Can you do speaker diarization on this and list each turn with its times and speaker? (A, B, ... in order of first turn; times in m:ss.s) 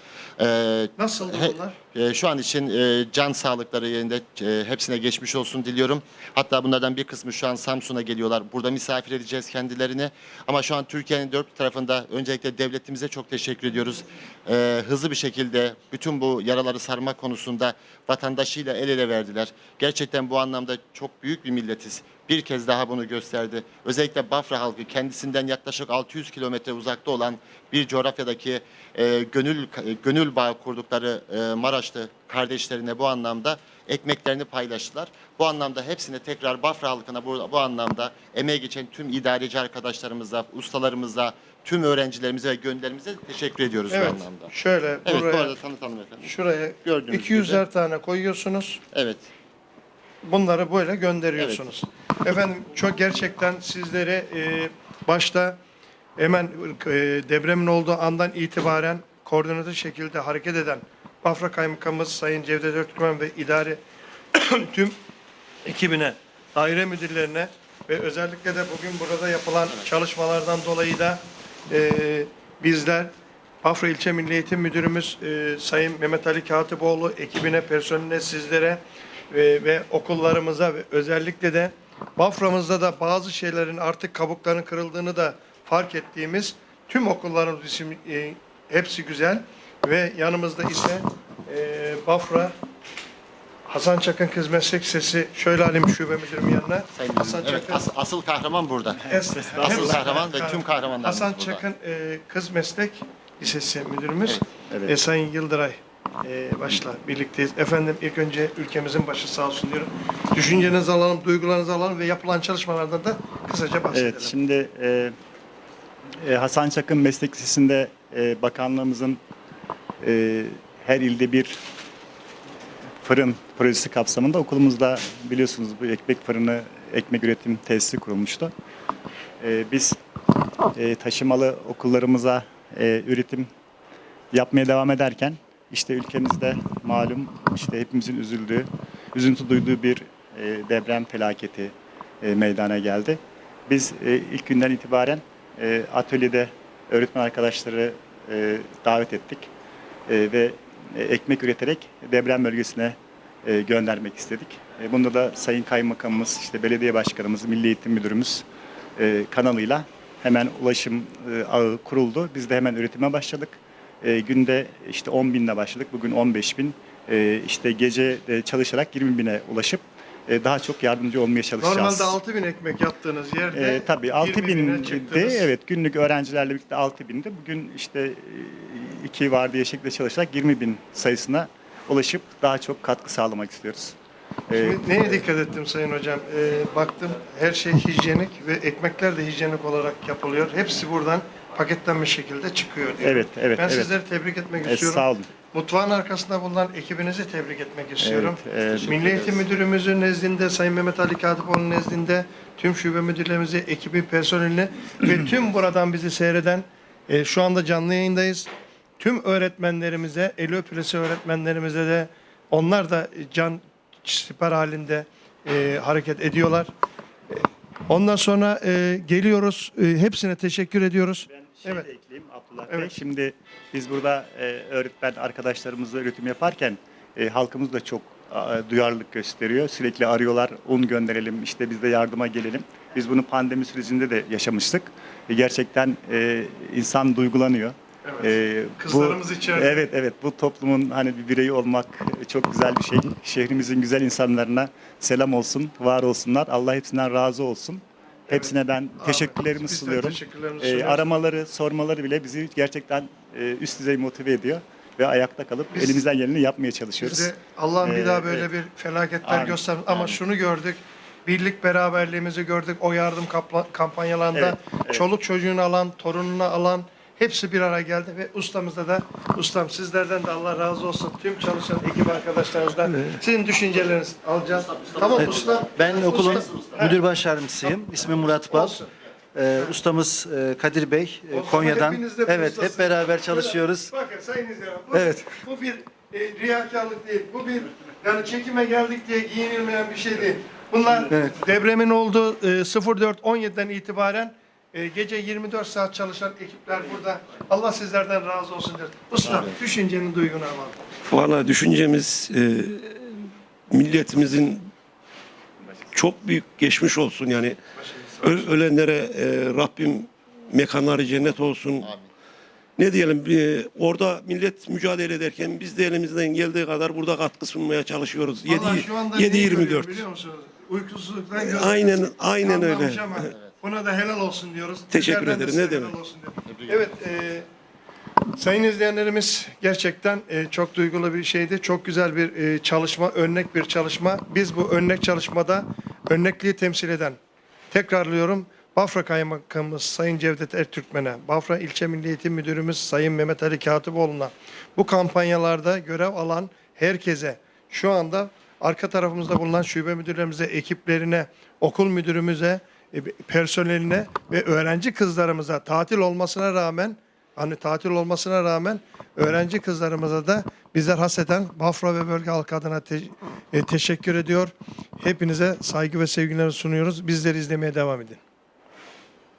0:00.4-0:44.5 A
0:01.0-0:01.8 B
0:43.9-0:45.5 B
0:45.0-0:46.3 A
0:46.2-0:48.8 B
0:46.8-0:47.6 A
0:48.9-0:49.3 A
0:50.2-0:55.6 B
0:56.2-1:03.8 B
1:04.3-1:05.0 B
1:05.6-1:32.5 B
1:33.7-1:37.8 B
1:36.9-1:39.0 A
1:39.1-1:54.3 B
1:39.2-1:40.2 C
1:39.6-1:41.6 A
1:44.7-1:45.0 C
1:53.9-1:55.1 C
1:56.2-1:59.2 C
2:00.0-2:01.6 C
2:03.0-2:08.5 C
2:09.4-2:10.0 C
2:10.7-2:13.5 C
2:14.3-2:29.5 C
2:30.1-2:38.4 C
2:39.0-2:52.1 C
2:51.6-2:55.5 B
2:53.5-3:04.0 C
3:04.5-3:05.2 C
3:04.5-3:36.7 B
3:13.0-3:13.9 C
3:14.6-3:15.3 C
3:18.0-3:19.4 C
3:37.3-3:41.9 B
3:41.3-4:17.3 C
3:58.0-3:59.8 B
4:08.3-4:11.0 B
4:15.7-4:16.0 B
4:17.0-4:37.0 B
4:17.8-4:18.5 C
4:19.2-4:20.2 C
4:24.3-4:25.0 C
4:34.7-4:35.6 A
4:35.0-4:38.8 D
4:36.4-4:36.7 A
4:37.6-4:38.9 B
4:39.3-4:43.9 D
4:39.5-4:39.8 B
4:41.3-5:00.8 B
4:44.9-4:45.4 D
5:01.1-5:02.5 E
5:03.7-5:04.5 E
5:05.9-5:07.5 E
5:07.8-5:08.5 B
5:08.3-5:11.8 E
5:11.8-5:12.1 A
5:12.8-5:18.6 E
5:18.4-5:27.4 B
5:21.7-5:22.7 E
5:25.0-5:25.9 E
5:26.4-5:26.9 A
5:28.4-5:37.2 B
5:37.7-6:08.2 B